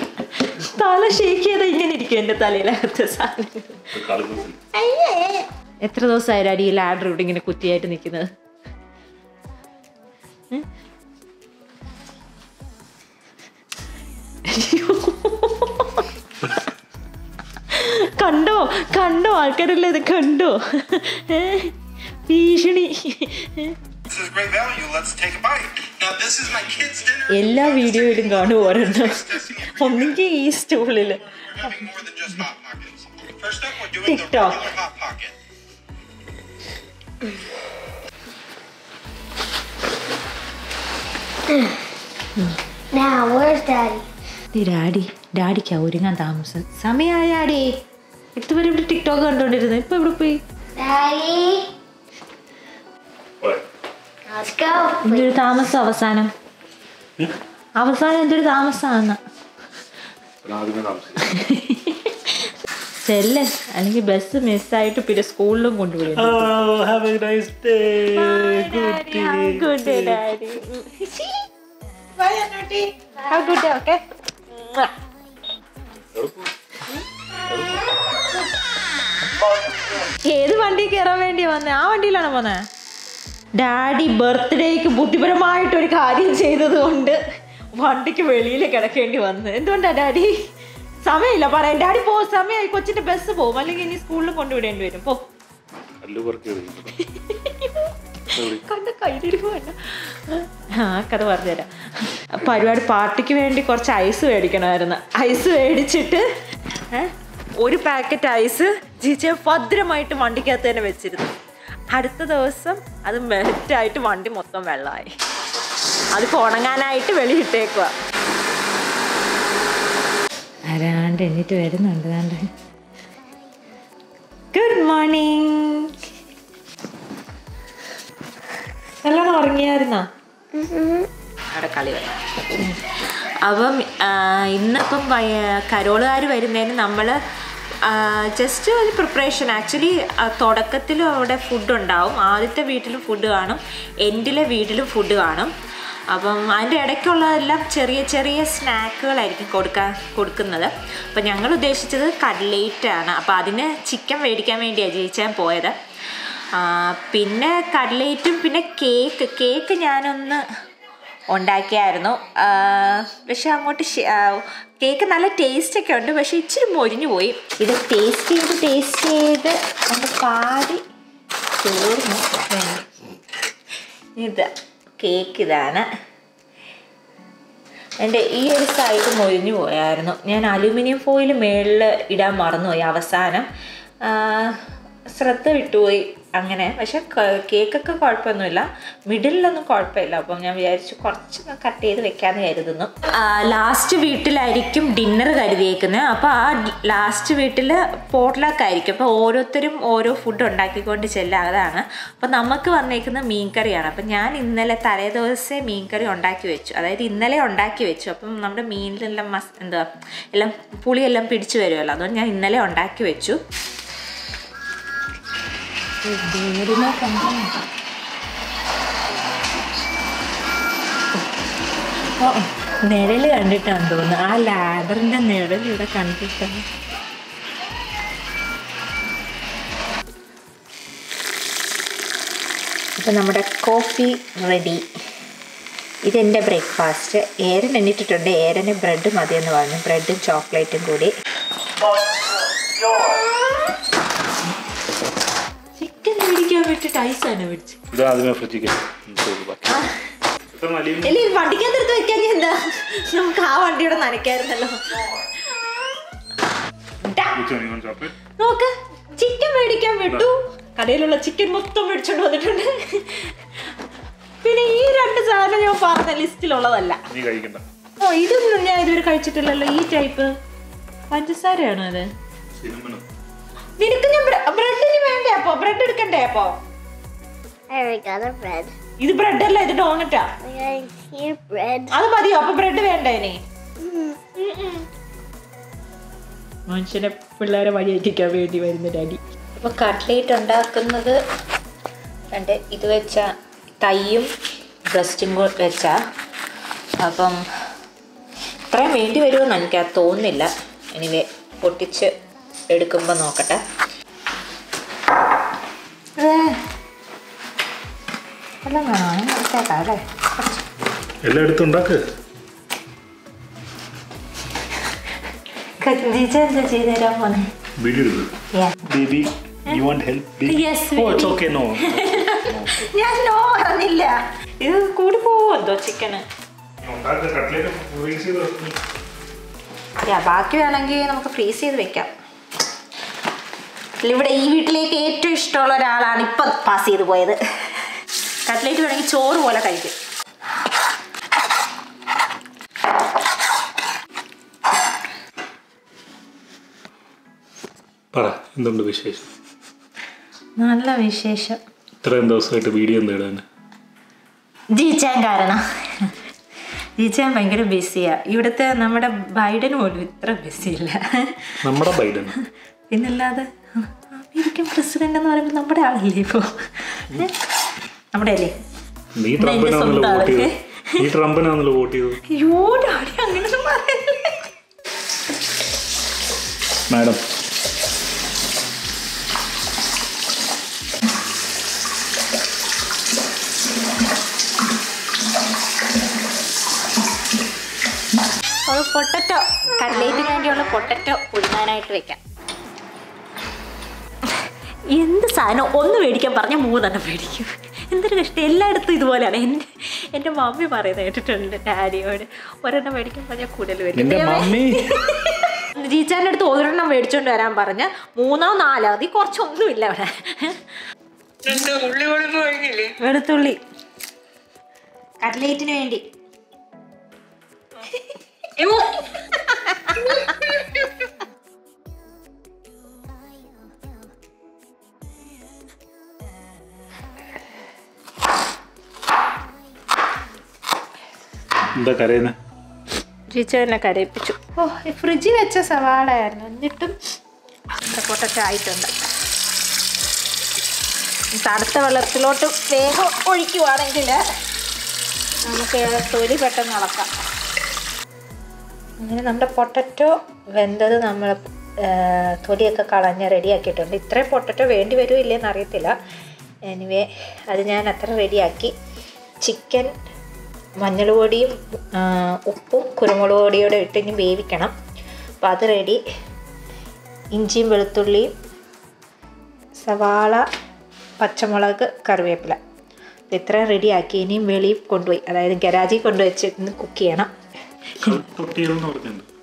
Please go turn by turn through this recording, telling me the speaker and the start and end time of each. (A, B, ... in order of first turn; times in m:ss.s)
0:00.5-0:03.8 A
0:03.9-0:04.6 B
0:04.8-0:08.3 A
0:14.5-0:16.1 A
0:17.7-0:21.7 A
0:22.3-0:23.8 A
0:24.3-0:27.1 C
0:27.2-0:32.5 A
0:33.8-0:34.8 A
0:42.9-0:44.0 D
0:44.5-0:47.7 A
0:48.4-0:50.4 A
0:50.8-0:51.7 D
0:54.3-0:55.3 D
0:55.0-0:56.3 A
0:57.8-0:59.2 A
1:00.4-1:01.3 B
1:01.2-1:02.3 A
1:03.0-1:06.5 A
1:06.0-1:10.2 B
1:08.1-1:11.4 A
1:12.2-1:14.0 A
1:14.5-1:14.9 A
1:16.1-1:16.5 B
1:17.5-1:17.8 B
1:20.2-1:22.6 A
1:23.6-1:27.2 A
1:27.7-1:30.3 A
1:31.0-1:35.2 A
1:36.0-1:37.0 B
1:37.3-1:37.9 A
1:38.3-1:38.6 B
1:38.6-1:46.2 A
1:46.9-1:51.3 A
1:51.9-1:55.1 A
1:56.1-1:57.9 A
2:00.7-2:02.5 A
2:04.5-2:05.9 A
2:09.0-2:10.1 A
2:10.5-2:11.1 D
2:11.5-2:12.9 A
2:13.4-2:17.2 A
2:17.8-2:25.5 A
2:26.1-2:35.8 A
2:36.5-2:40.4 A
2:41.3-2:50.8 A
2:51.6-2:52.8 A
2:54.2-2:55.9 A
2:58.0-3:03.5 A
3:04.0-3:33.4 A
3:36.0-3:37.5 A
3:42.2-3:46.6 A
3:53.0-3:54.8 A
3:56.0-4:01.1 A
4:05.8-4:07.8 A
4:07.9-4:09.9 B
4:10.5-4:11.2 B
4:11.0-4:15.0 A
4:17.0-4:17.4 A
4:17.3-4:18.1 B
4:18.4-4:23.4 A
4:24.4-4:27.0 A
4:27.1-4:27.6 B
4:28.0-4:30.3 A
4:31.1-4:32.1 A
4:32.6-4:33.0 B
4:33.8-4:36.6 A
4:37.7-4:38.7 D
4:39.0-4:40.3 A
4:40.4-4:41.9 D
4:41.9-4:43.4 A
4:43.8-4:44.1 D
4:44.4-4:44.8 A
4:46.7-4:51.2 A
4:52.3-4:54.3 A
4:54.9-4:56.0 A
4:57.0-4:57.4 A
4:58.7-5:02.1 A
5:02.7-5:03.6 A
5:06.2-5:06.6 A
5:08.6-5:10.6 A
5:11.2-5:12.0 B
5:15.8-5:17.5 A
5:17.8-5:22.8 B
5:20.4-5:26.2 A
5:26.8-5:28.8 B
5:30.0-5:32.1 A
5:34.0-5:37.9 A
5:38.5-5:39.9 A
5:48.1-5:49.3 B
5:50.6-5:51.6 A
5:52.0-5:53.4 B
5:54.7-5:56.2 A
5:57.0-6:01.6 A
6:01.6-6:02.4 B
6:02.9-6:07.3 A
6:08.1-6:08.5 A
6:09.2-6:12.2 B
6:09.4-6:11.0 A
6:12.3-6:14.4 A
6:16.9-6:17.2 B
6:28.7-6:32.2 A
6:34.9-6:50.6 A
6:43.9-6:45.0 B
6:51.5-6:53.6 A
6:55.2-6:56.0 A
6:58.6-7:00.4 A
7:11.8-7:12.4 B
7:13.3-7:16.9 A
7:17.8-7:18.9 A
7:21.3-7:24.2 A
7:25.4-7:27.1 A
7:29.0-7:35.9 A
7:36.6-7:38.7 A
7:39.4-7:39.9 A
7:40.8-7:44.7 A
7:45.4-7:46.0 A
7:47.3-7:48.3 A
7:49.8-7:50.4 A
7:51.2-7:52.6 A
7:53.3-7:57.3 A
7:58.0-7:59.3 B